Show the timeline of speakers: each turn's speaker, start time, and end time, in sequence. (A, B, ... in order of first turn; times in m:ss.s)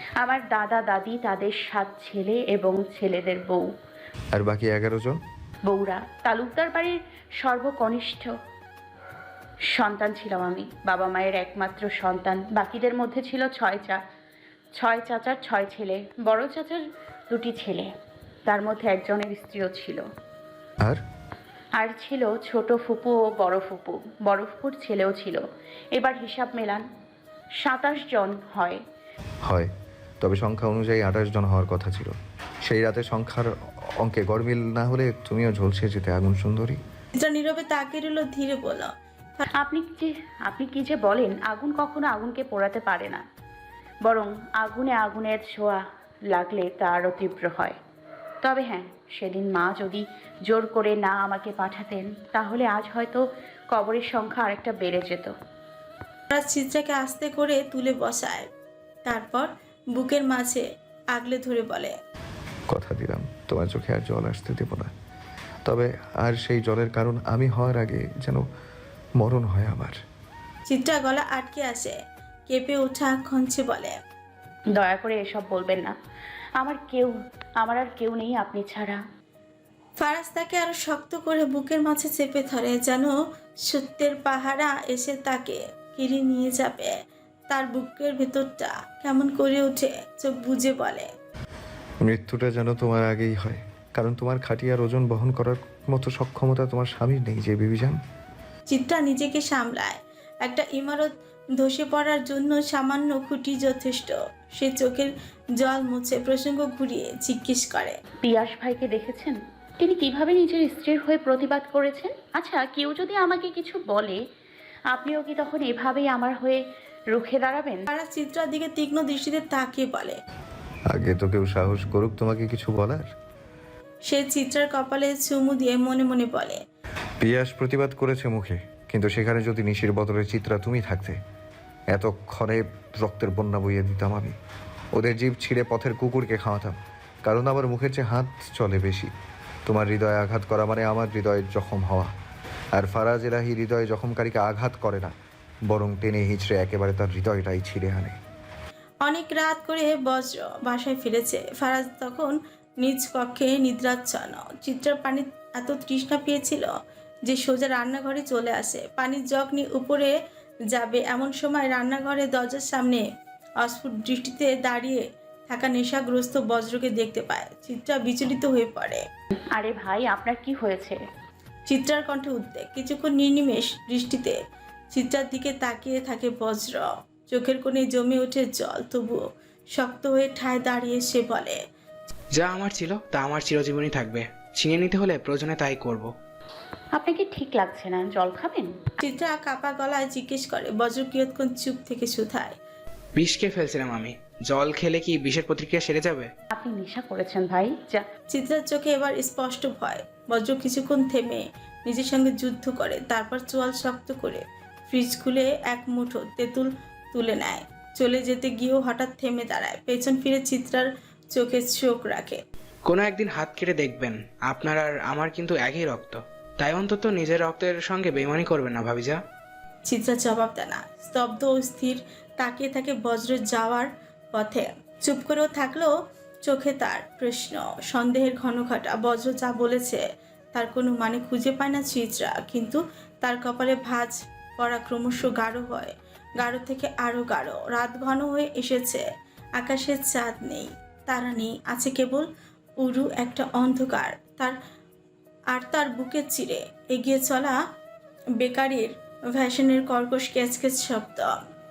0:00.2-0:03.6 A
0:04.3-0:05.2 B
0:05.6-0:08.3 A
0:09.7-0:14.0 A
0:14.8-0:17.9 A
0:18.5-0:20.0 A
0:21.8-0:25.4 A
0:25.9-0:26.8 A
0:27.6-0:28.8 A
0:29.4-0:36.8 B
0:37.2-0:39.5 C
0:39.6-0:43.2 A
0:44.0-0:47.8 A
0:48.4-0:55.3 A
0:56.3-0:58.5 C
0:59.0-1:00.6 C
1:01.1-1:01.9 C
1:02.7-1:04.9 B
1:05.6-1:08.4 B
1:09.2-1:10.0 B
1:10.7-1:12.0 C
1:12.5-1:14.0 C
1:14.7-1:15.9 A
1:16.6-1:19.0 A
1:20.0-1:23.1 C
1:23.7-1:26.9 C
1:27.5-1:31.1 C
1:32.0-1:38.0 B
1:38.7-1:48.0 C
1:48.2-1:54.2 A
1:54.9-1:56.6 A
1:57.1-1:57.8 A
1:57.9-2:00.2 C
2:00.9-2:03.1 B
2:04.0-2:06.6 C
2:07.2-2:11.2 B
2:11.9-2:14.3 B
2:14.9-2:19.1 B
2:19.7-2:22.1 B
2:22.7-2:25.1 B
2:25.7-2:28.2 B
2:29.0-2:36.7 C
2:37.2-2:40.1 C
2:40.7-2:43.0 C
2:43.6-2:49.0 C
2:49.5-2:51.0 A
2:51.7-2:54.4 C
2:54.9-2:59.2 C
2:59.7-3:01.6 C
3:02.3-3:06.1 D
3:07.0-3:08.7 A
3:09.0-3:12.5 C
3:13.2-3:16.3 D
3:16.5-3:18.0 A
3:18.3-3:32.4 C
3:32.9-3:39.2 D
3:39.9-3:45.9 C
3:46.4-3:50.0 C
3:50.5-3:59.0 C
3:59.6-4:02.3 C
4:02.8-4:04.6 C
4:05.5-4:07.6 C
4:08.4-4:11.4 C